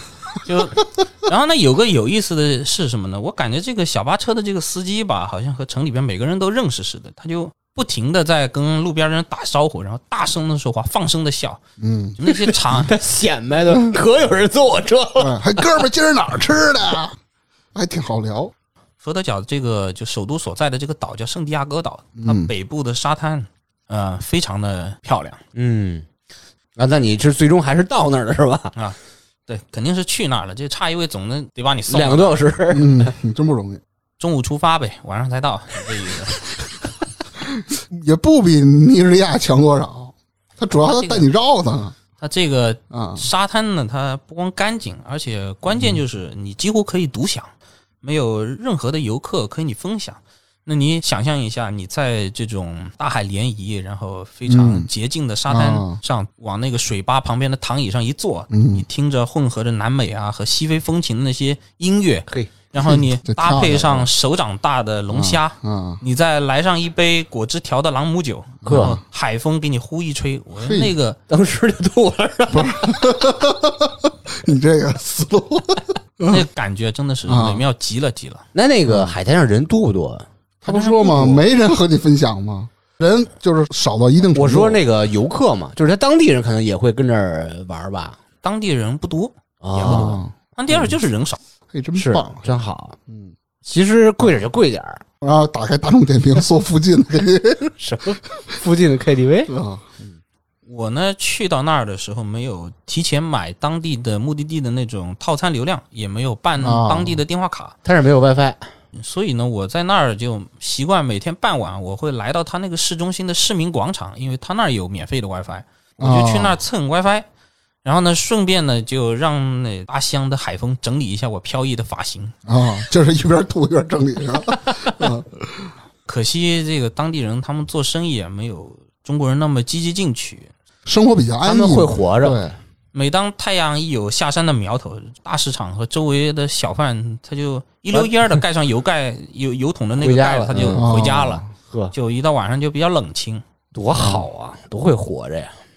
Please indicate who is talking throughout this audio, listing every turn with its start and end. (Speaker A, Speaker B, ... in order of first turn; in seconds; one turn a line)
Speaker A: 0.3-11.6
Speaker B: 11.8-12.2
Speaker A: 12.2-12.9
Speaker C: 12.3-15.8
Speaker B: 15.2-17.2
Speaker B: 17.8-18.5
Speaker A: 19.0-25.4
Speaker B: 22.2-22.5
Speaker C: 25.6-26.1
Speaker C: 26.8-28.7
Speaker A: 28.8-32.4
Speaker C: 31.9-33.1
Speaker B: 32.7-33.8
Speaker A: 34.2-36.5
Speaker B: 37.4-42.0
Speaker A: 40.8-41.3
Speaker A: 42.2-47.5
Speaker B: 42.9-43.3
Speaker A: 48.0-71.2
Speaker B: 54.5-54.9
Speaker B: 55.5-56.0
Speaker B: 58.5-58.9
Speaker B: 62.8-64.1
Speaker B: 65.1-66.0
Speaker B: 68.6-69.0
Speaker C: 68.7-69.0
Speaker B: 70.6-70.9
Speaker C: 71.3-73.1
Speaker B: 72.5-76.5
Speaker A: 76.3-78.5
Speaker B: 77.3-77.6
Speaker C: 78.5-80.3
Speaker B: 78.9-79.1
Speaker B: 80.6-84.8
Speaker A: 80.7-81.5
Speaker C: 84.3-88.2
Speaker A: 88.4-91.4
Speaker C: 89.6-90.2
Speaker B: 89.8-91.0
Speaker B: 91.7-92.5
Speaker C: 92.0-93.0
Speaker B: 93.1-93.3
Speaker C: 93.6-95.0
Speaker B: 95.2-97.7
Speaker C: 97.8-99.5
Speaker B: 99.5-99.8
Speaker A: 100.7-107.8
Speaker B: 106.6-107.2
Speaker C: 107.8-108.6
Speaker A: 108.9-117.3
Speaker B: 116.0-116.6
Speaker A: 117.8-122.4
Speaker B: 122.5-125.7
Speaker A: 126.1-130.5
Speaker B: 130.9-132.6
Speaker C: 131.4-132.5
Speaker A: 132.9-143.4
Speaker C: 140.0-140.9
Speaker B: 140.6-141.4
Speaker C: 141.6-141.9
Speaker C: 143.7-145.6